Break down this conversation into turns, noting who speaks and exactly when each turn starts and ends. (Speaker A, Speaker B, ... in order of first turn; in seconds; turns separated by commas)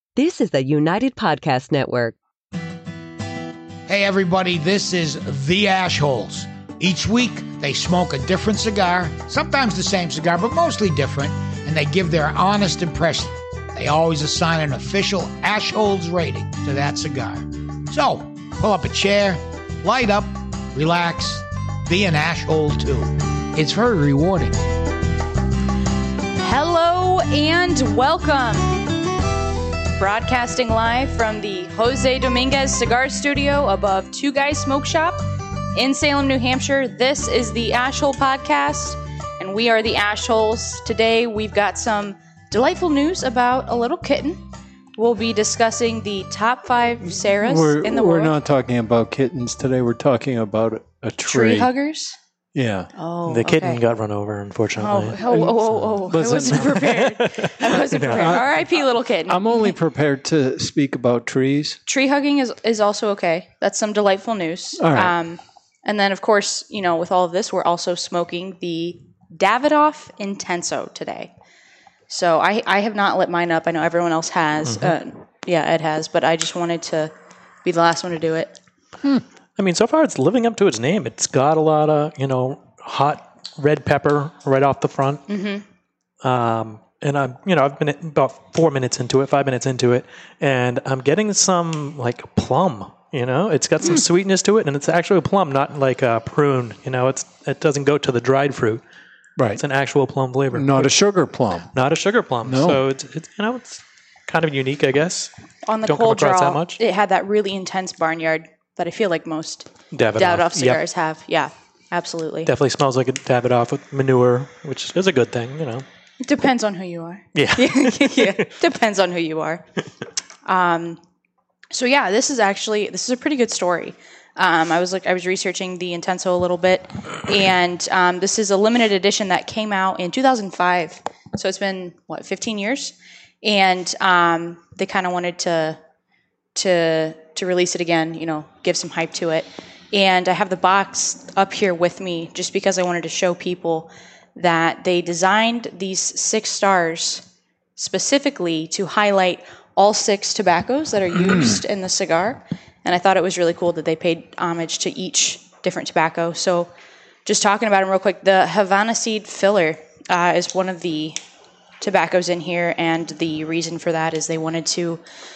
Speaker A: 0.2-2.1, Speaker B: 3.9-24.6, Speaker C: 26.4-28.8, Speaker C: 30.0-35.2, Speaker C: 35.8-44.4, Speaker C: 45.0-48.4, Speaker D: 47.3-51.7, Speaker C: 51.3-52.2, Speaker D: 52.5-52.9, Speaker C: 53.0-53.8, Speaker E: 53.3-55.2, Speaker C: 54.8-59.8, Speaker D: 55.3-57.1, Speaker E: 56.8-58.5, Speaker D: 58.1-58.6, Speaker D: 59.3-61.8, Speaker C: 61.9-71.3, Speaker D: 64.8-65.2, Speaker C: 72.1-77.1, Speaker E: 74.7-75.0, Speaker C: 77.7-78.6, Speaker E: 79.1-85.2, Speaker C: 85.3-85.6, Speaker E: 86.2-98.8, Speaker D: 99.4-99.6, Speaker E: 99.6-101.0, Speaker D: 100.5-101.7, Speaker E: 101.7-105.3, Speaker D: 102.4-102.8, Speaker C: 105.7-112.5, Speaker E: 105.8-106.8, Speaker E: 109.9-110.8, Speaker E: 112.5-115.8, Speaker C: 116.2-119.7, Speaker E: 117.3-118.5, Speaker C: 120.5-121.0, Speaker C: 121.7-135.8, Speaker C: 136.6-147.2, Speaker C: 147.8-156.7, Speaker D: 151.2-151.6, Speaker C: 157.2-161.2, Speaker C: 161.8-165.0